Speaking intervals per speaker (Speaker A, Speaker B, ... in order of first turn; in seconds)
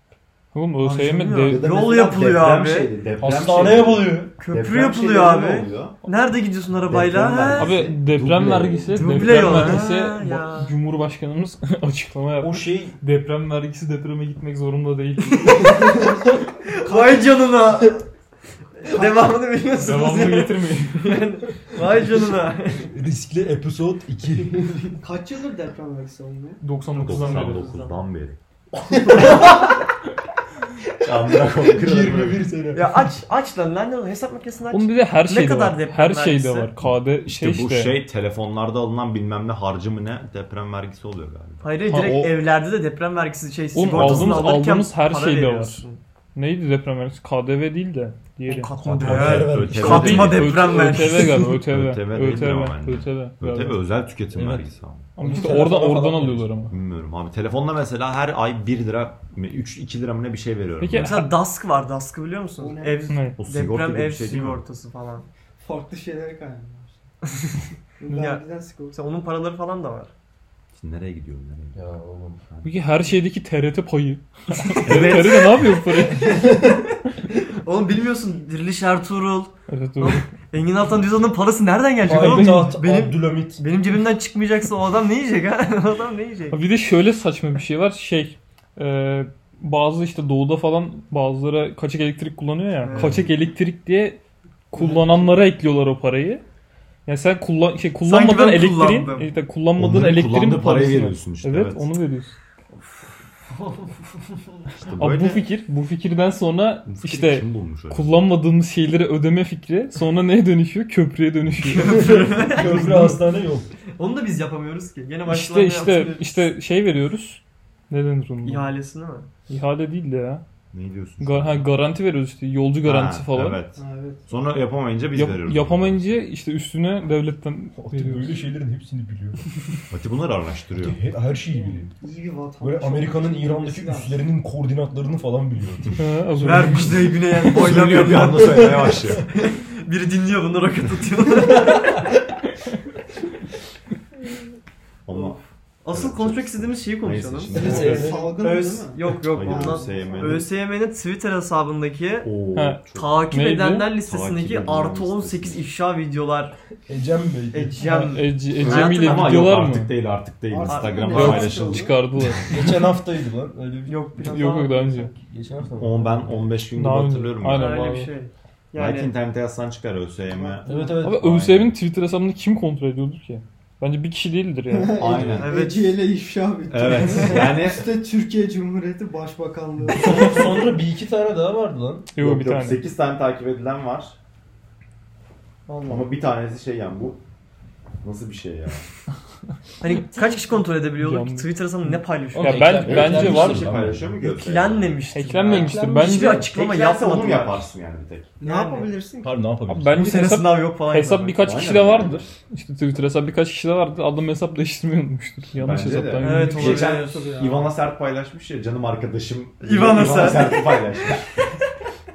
Speaker A: 0.5-1.7, 7.6-15.7, 19.8-21.2, 26.6-27.7, 34.7-38.0, 41.9-42.3, 43.7-45.8, 46.3-48.7, 49.5-53.8, 55.1-56.7, 60.8-61.3, 63.1-63.4, 72.6-76.5, 79.7-80.3, 82.1-82.7, 86.5-96.4, 97.1-102.3, 104.9-112.4, 115.3-118.7, 119.5-120.4, 121.2-123.6, 125.1-128.4, 136.0-137.0, 152.5-153.9, 157.8-159.9, 161.1-162.8, 164.2-165.1, 166.7-168.1, 171.0-175.1, 182.1-182.8, 191.0-193.7, 195.1-196.5, 199.7-206.7
Speaker B: 0.8-3.0, 4.3-7.7, 8.9-10.7, 15.3-16.1, 16.7-18.1, 18.8-22.9, 27.0-28.0, 29.1-29.6, 32.7-36.7, 41.6-46.0, 48.4-51.5, 61.0-65.3, 67.3-70.1, 74.6-76.8, 77.4-86.6, 92.8-93.2, 98.0-99.3, 103.5-104.6, 111.7-113.2, 113.9-116.5, 118.4-119.3, 136.4-142.0, 145.1-152.3, 152.9-156.5, 157.5-159.4, 160.6-161.6, 163.8-165.1, 167.5-169.1, 175.2-176.0, 185.7-186.1, 189.8-192.8, 194.2-197.7, 198.4-198.9, 199.9-201.5, 206.2-207.3, 209.6-210.8
Speaker C: 1.4-6.0, 6.8-8.0, 27.0-28.4, 31.0-32.5, 37.2-41.7, 43.9-44.4, 48.8-55.1, 56.7-61.1, 63.4-64.6, 70.7-71.9, 72.4-72.9, 74.8-75.6, 92.9-93.3, 99.8-101.9, 104.8-105.5, 106.8-108.1, 120.7-121.7, 122.8-126.1, 129.9-131.0, 137.5-139.2, 145.1-145.4, 145.9-148.1, 149.3-150.5, 152.2-153.1, 154.0-155.7, 158.5-161.9, 165.8-168.0, 168.8-171.7, 175.0-175.5, 176.7-177.9, 182.2-184.2, 185.9-187.2, 188.0-188.9, 192.8-195.0, 196.1-198.3, 201.4-202.3, 205.6-211.3
Speaker D: 3.2-4.3, 8.1-9.7, 12.4-13.0, 22.8-24.8, 29.1-29.7, 31.4-33.2, 44.0-44.5, 48.9-50.4, 54.3-54.7, 55.2-56.6, 71.7-72.4, 76.3-76.8, 82.0-83.6, 111.8-113.7, 127.8-129.4, 130.8-131.9, 132.6-137.9, 138.5-139.1, 141.5-142.0, 147.5-148.3, 156.9-157.9, 162.5-164.3, 165.1-166.2, 170.7-171.7, 179.9-182.1, 192.3-194.2, 195.3-196.1, 199.2-200.0
Speaker E: 15.7-17.5, 18.9-19.4, 25.0-26.6, 62.6-63.1, 65.6-67.0, 68.0-69.0, 123.8-124.2, 131.5-134.3, 147.5-150.4, 160.5-162.0, 170.3-171.0, 174.7-180.8, 190.2-190.5, 198.4-199.4, 206.7-207.7